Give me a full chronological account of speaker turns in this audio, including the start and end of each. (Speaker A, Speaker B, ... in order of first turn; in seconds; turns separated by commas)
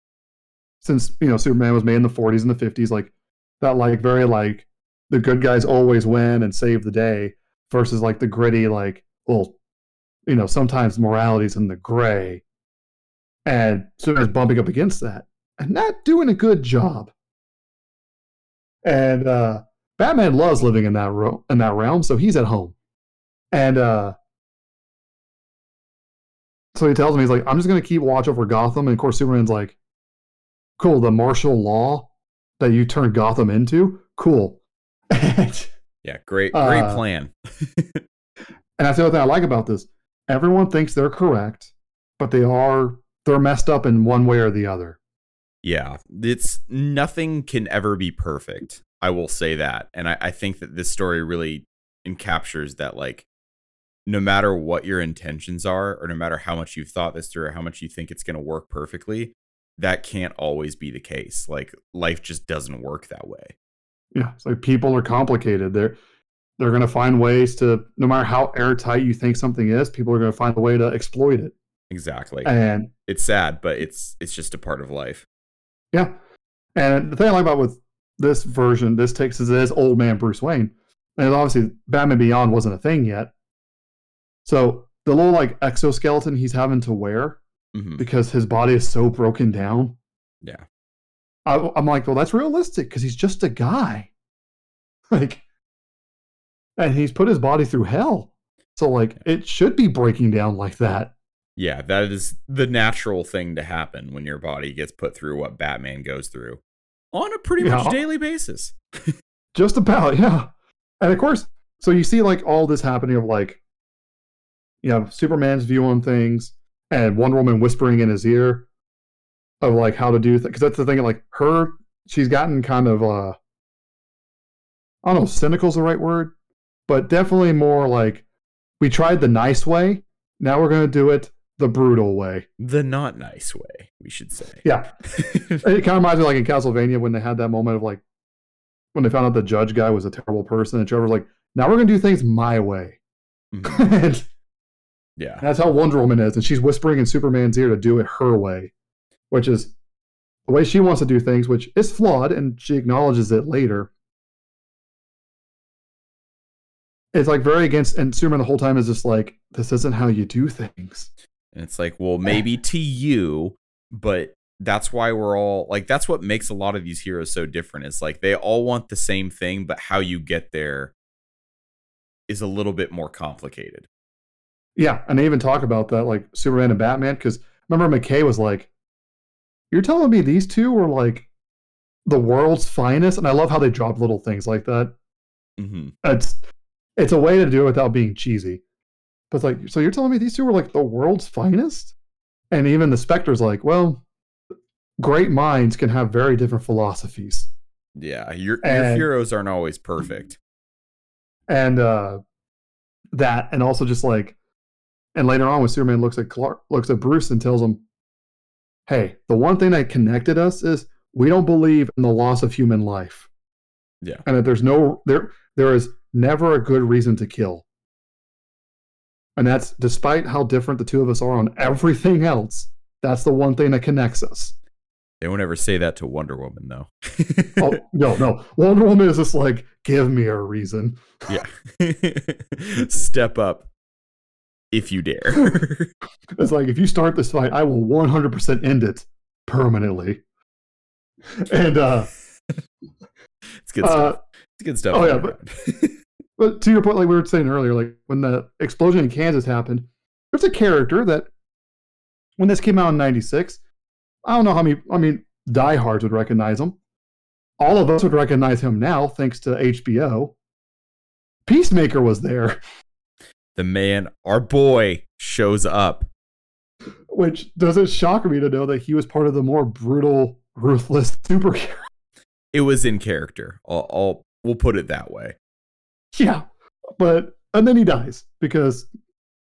Speaker A: 0.8-9.6, Speaker A: 10.3-12.4, Speaker A: 13.5-17.1, Speaker A: 18.9-22.8, Speaker A: 23.5-24.1, Speaker A: 26.7-29.8, Speaker A: 30.8-32.1, Speaker A: 32.6-34.6, Speaker A: 35.1-35.7, Speaker B: 36.0-38.0, Speaker A: 36.5-37.0, Speaker A: 38.8-45.0, Speaker B: 45.6-53.3, Speaker B: 54.1-63.5, Speaker A: 64.2-66.0, Speaker A: 66.6-71.5, Speaker B: 71.9-72.5, Speaker A: 72.5-72.9, Speaker B: 73.1-75.3, Speaker A: 76.8-83.3, Speaker A: 84.5-87.4, Speaker B: 87.7-88.0, Speaker A: 88.0-90.0, Speaker A: 91.5-94.1, Speaker A: 95.1-95.4, Speaker A: 96.8-101.1, Speaker B: 101.6-106.6, Speaker B: 107.1-109.1, Speaker A: 107.6-108.0, Speaker A: 109.5-110.5, Speaker A: 111.0-113.6, Speaker A: 114.8-118.7, Speaker A: 119.6-123.4, Speaker A: 125.0-126.3, Speaker A: 126.9-128.2, Speaker A: 128.8-132.5, Speaker B: 132.6-135.6, Speaker A: 134.6-134.9, Speaker A: 135.6-138.0, Speaker A: 138.9-143.0, Speaker B: 143.5-143.9, Speaker A: 143.6-144.3, Speaker B: 145.2-145.4, Speaker A: 145.4-148.7, Speaker A: 149.3-149.7, Speaker A: 150.5-153.9, Speaker A: 157.1-161.1, Speaker B: 161.5-170.9, Speaker B: 172.3-173.9, Speaker A: 174.8-178.7, Speaker A: 179.7-181.3, Speaker A: 182.1-184.9, Speaker B: 185.6-185.9, Speaker A: 186.0-186.4, Speaker A: 187.0-188.6, Speaker A: 189.3-191.9, Speaker A: 192.5-194.0, Speaker A: 195.0-197.5, Speaker B: 198.0-200.4, Speaker A: 198.6-199.1, Speaker A: 201.5-202.2, Speaker A: 203.1-204.4, Speaker A: 205.2-207.8, Speaker A: 208.9-213.3, Speaker A: 214.2-217.6, Speaker A: 219.4-224.6, Speaker B: 225.2-227.8, Speaker A: 227.6-231.0, Speaker B: 231.3-233.7, Speaker B: 234.7-235.9, Speaker A: 236.4-240.2, Speaker A: 241.4-242.1, Speaker B: 243.6-246.0, Speaker A: 243.8-244.2, Speaker A: 244.9-245.3, Speaker A: 246.4-251.3, Speaker A: 252.4-253.6, Speaker A: 254.2-256.8, Speaker A: 257.6-260.4, Speaker A: 261.5-262.6, Speaker B: 263.6-266.1, Speaker A: 267.1-271.9, Speaker B: 272.5-275.4, Speaker A: 276.1-276.4, Speaker A: 277.0-278.9